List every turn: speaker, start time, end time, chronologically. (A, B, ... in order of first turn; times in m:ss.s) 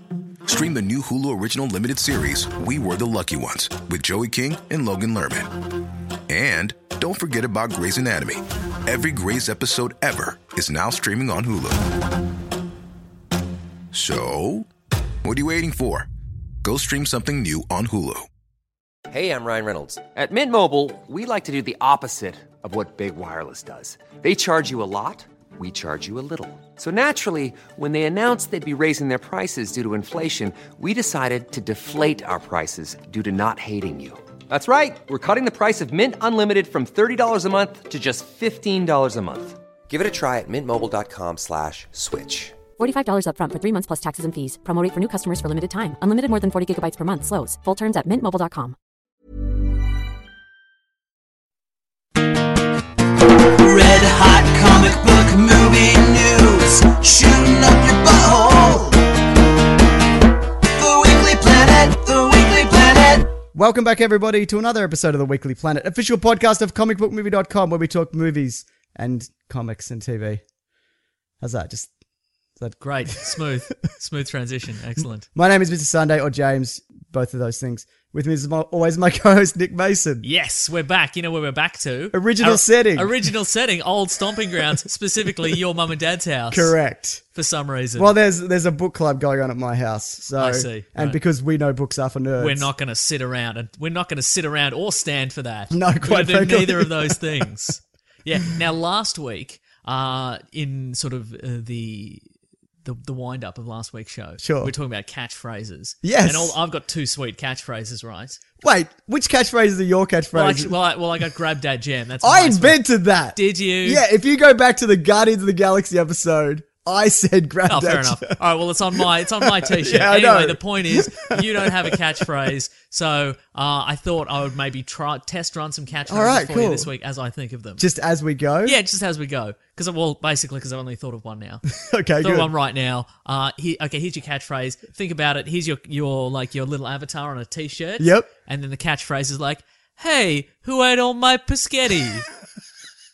0:00.5-0:05.5 A
0:06.3-0:11.8 A
0:13.9-0:14.7 A
0:15.2-0:16.1 A
0:16.6-0:18.3 A
0:19.1-0:42.6 B
0:42.8-0:48.8 C
0:53.5-0:59.1 D
1:00.7-1:03.3 D
1:03.4-1:10.4 E
1:11.4-1:11.9 E
1:12.6-1:13.5 E
1:12.8-1:15.3 F
1:15.4-1:20.2 E
1:20.2-1:26.8 F
1:22.1-1:23.2 E
1:26.5-1:27.2 E
1:27.3-1:28.1 F
1:28.0-1:32.7 E
1:30.4-1:31.2 F
1:32.4-1:42.3 F
1:35.7-1:37.5 E
1:42.8-1:48.4 F
1:44.4-1:44.7 E
1:46.0-1:46.6 E
1:48.6-1:50.7 E
1:50.3-1:54.0 F
1:52.2-1:58.4 E
1:57.7-2:07.8 F
1:59.0-2:02.2 E
2:06.1-2:06.9 E
2:07.8-2:08.8 E
2:08.6-2:11.6 F
2:11.8-2:12.5 E
2:12.2-2:22.3 F
2:18.0-2:18.3 E